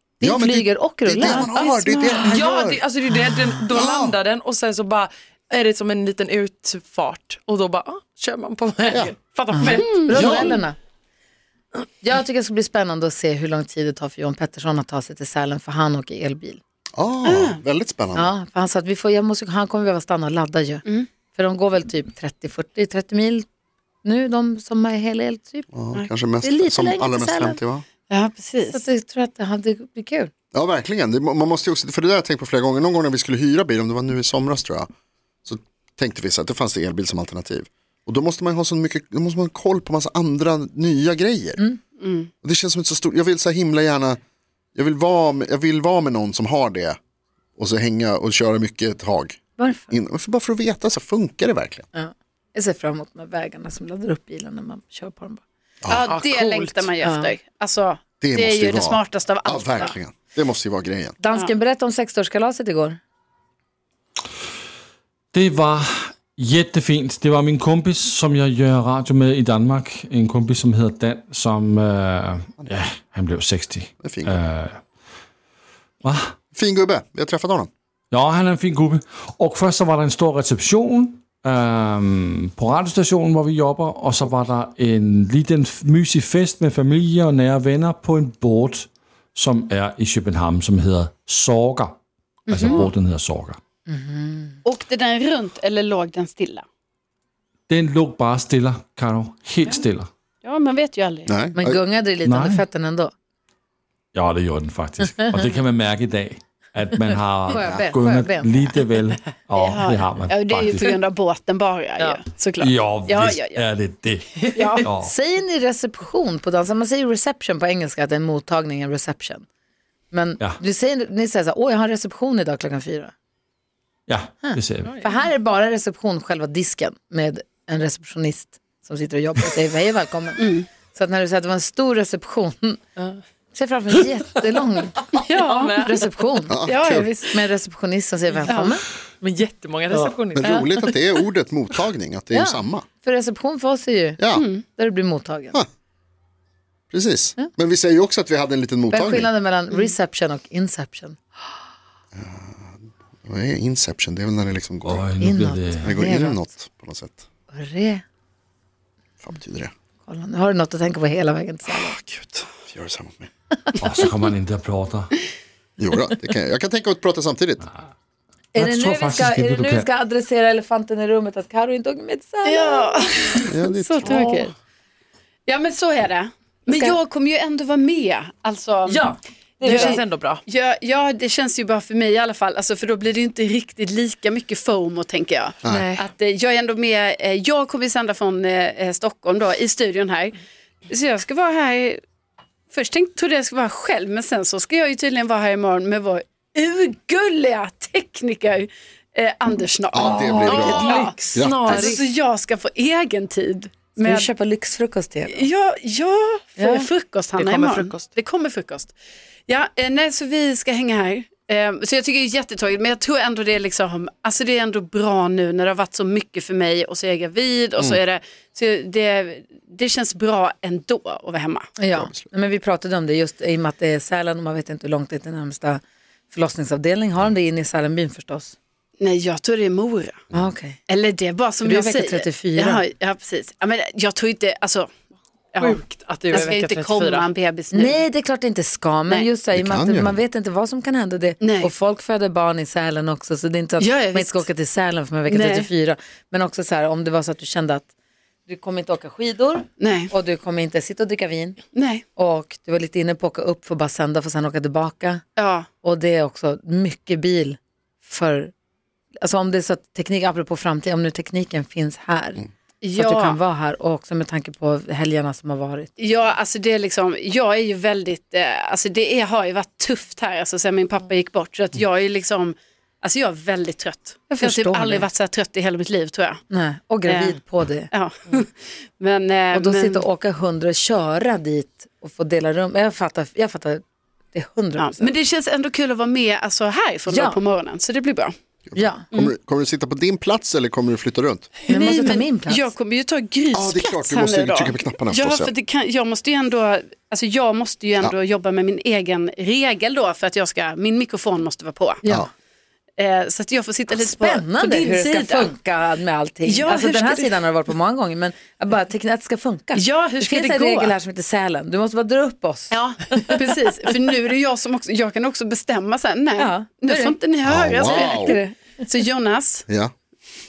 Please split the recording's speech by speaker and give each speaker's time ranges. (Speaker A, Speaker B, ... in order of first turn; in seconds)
Speaker A: 0.2-2.4, 9.5-10.8, 12.0-16.6, 18.1-23.5, 24.0-25.7, 26.4-27.6, 28.7-30.3, 49.6-49.9, 51.9-55.4, 57.0-57.3, 61.2-63.0, 93.9-94.6, 101.6-103.1, 107.5-108.8, 115.0-119.5, 120.1-123.1, 124.4-132.8, 133.5-135.0, 135.8-136.6, 137.2-138.8, 142.3-145.6, 148.9-151.2, 155.2-156.4, 157.5-158.0, 160.0-162.0, 168.5-173.0, 174.1-174.4, 176.7-177.0, 178.9-180.0, 204.0-205.5, 206.6-206.9, 221.8-228.6, 230.3-230.8, 231.6-232.8, 237.7-247.9, 248.5-251.6, 252.2-255.2, 255.8-258.5, 259.2-265.9, 274.3-275.1, 276.5-277.9, 279.5-285.1, 287.1-287.4, 288.8-289.1, 291.7-292.7, 302.0-302.3, 303.9-312.8, 316.4-317.2, 317.9-318.6
Speaker B: 0.2-2.8, 3.7-4.2, 8.9-9.2, 10.1-10.6, 16.9-18.3, 25.7-27.9, 30.5-34.9, 35.5-41.6, 42.4-44.2, 44.8-47.0, 47.6-51.9, 58.2-61.1, 74.0-74.4, 76.5-77.7, 101.3-101.8, 136.5-137.1, 140.3-142.8, 144.2-144.5, 146.9-149.3, 152.2-155.1, 155.8-157.2, 159.2-159.7, 161.7-163.3, 165.8-167.7, 173.5-174.2, 199.9-201.8, 222.0-222.2, 239.5-240.2, 288.7-291.5, 293.5-295.5, 317.4-318.4, 319.7-319.9
Speaker C: 2.2-10.5, 56.1-56.9, 124.8-125.3, 135.0-136.1, 139.2-140.9, 179.7-180.4, 185.7-186.1, 200.0-202.0, 207.4-208.1, 235.6-237.3
Speaker D: 9.8-10.1, 17.2-17.6, 28.1-28.8, 42.0-42.3, 55.9-59.9, 92.5-92.9, 94.7-96.7, 100.4-101.3, 109.6-113.7, 114.5-114.9, 130.4-130.7, 135.1-135.8, 136.6-137.4, 144.3-144.6, 172.4-174.5, 175.5-192.0, 192.7-204.3, 205.3-208.9, 209.5-221.7, 229.0-230.2, 230.9-234.9, 235.5-238.0, 241.4-241.7, 243.8-244.5, 245.3-245.7, 249.8-250.1, 251.8-252.0, 255.4-255.7, 262.8-263.4, 266.0-276.4, 277.1-277.4, 277.9-280.0, 284.8-288.3, 291.7-302.0, 303.0-305.5, 306.4-307.4, 309.8-310.9, 312.7-319.6
Speaker E: 65.3-74.8, 76.0-76.3, 78.1-92.0, 92.5-93.6, 97.7-100.1, 102.2-102.7, 104.1-110.9, 112.6-115.1, 124.1-124.9, 154.8-155.9, 163.8-165.1, 168.6-169.9